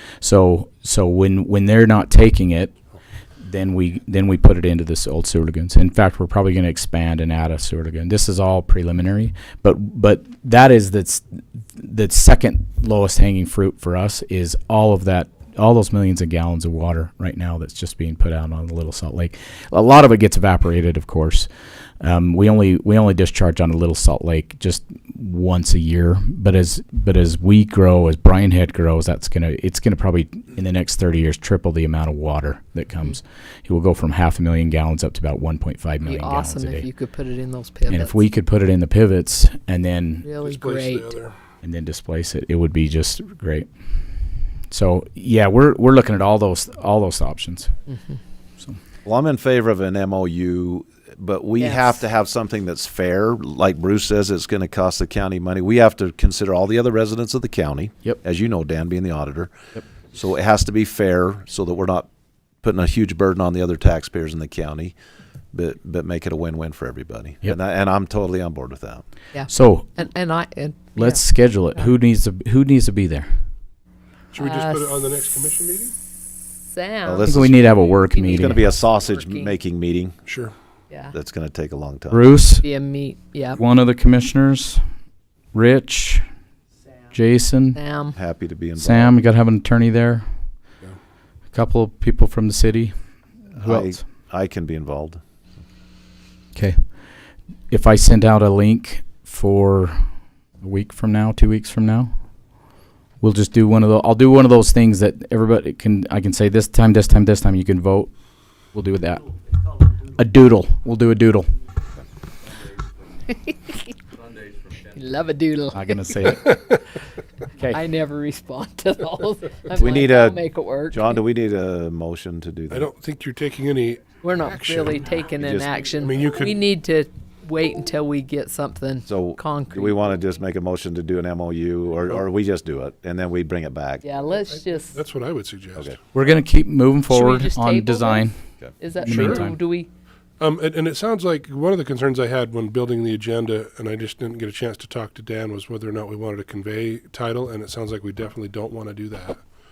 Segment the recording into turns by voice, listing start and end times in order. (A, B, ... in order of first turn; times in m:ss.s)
0:00.2-0:02.7 A
0:03.4-0:21.5 A
0:22.0-0:36.9 A
0:36.0-0:38.2 B
0:37.9-0:40.2 A
0:40.2-0:41.1 B
0:40.4-0:41.3 C
0:41.6-0:43.7 A
0:44.7-0:47.7 A
0:47.9-0:48.2 B
0:49.0-0:59.5 D
0:51.6-0:51.9 B
1:00.1-1:02.1 D
1:02.6-1:04.9 D
1:05.5-1:09.0 D
1:09.3-1:11.9 B
1:09.5-1:10.0 A
1:11.0-1:13.3 A
1:14.3-1:15.9 C
1:14.4-1:15.0 B
1:16.6-1:19.6 B
1:17.0-1:20.2 D
1:17.2-1:18.6 A
1:20.3-1:20.5 C
1:21.1-1:22.3 D
1:22.1-1:22.7 A
1:22.6-1:23.6 B
1:23.6-1:24.8 A
1:25.5-1:26.2 A
1:27.1-1:27.8 A
1:27.7-1:28.2 B
1:28.1-1:29.1 D
1:28.8-1:30.2 A
1:31.5-1:32.9 A
1:33.6-1:34.0 A
1:33.6-1:35.2 D
1:36.5-1:36.8 A
1:37.7-1:40.0 A
1:40.6-1:42.1 A
1:43.2-1:48.1 A
1:48.7-1:49.2 A
1:50.2-1:51.5 A
1:53.3-1:53.9 B
1:54.9-1:56.3 B
1:55.7-1:56.6 A
1:56.4-1:56.8 C
1:57.7-2:01.2 B
1:59.7-2:02.9 D
2:02.7-2:06.5 C
2:04.2-2:10.0 B
2:09.1-2:14.0 D
2:14.0-2:15.0 B
2:14.5-2:15.9 C
2:16.1-2:18.4 A
2:17.1-2:18.3 B
2:18.8-2:19.9 B
2:19.0-2:19.5 C
2:19.0-2:19.6 A
2:20.4-2:29.4 C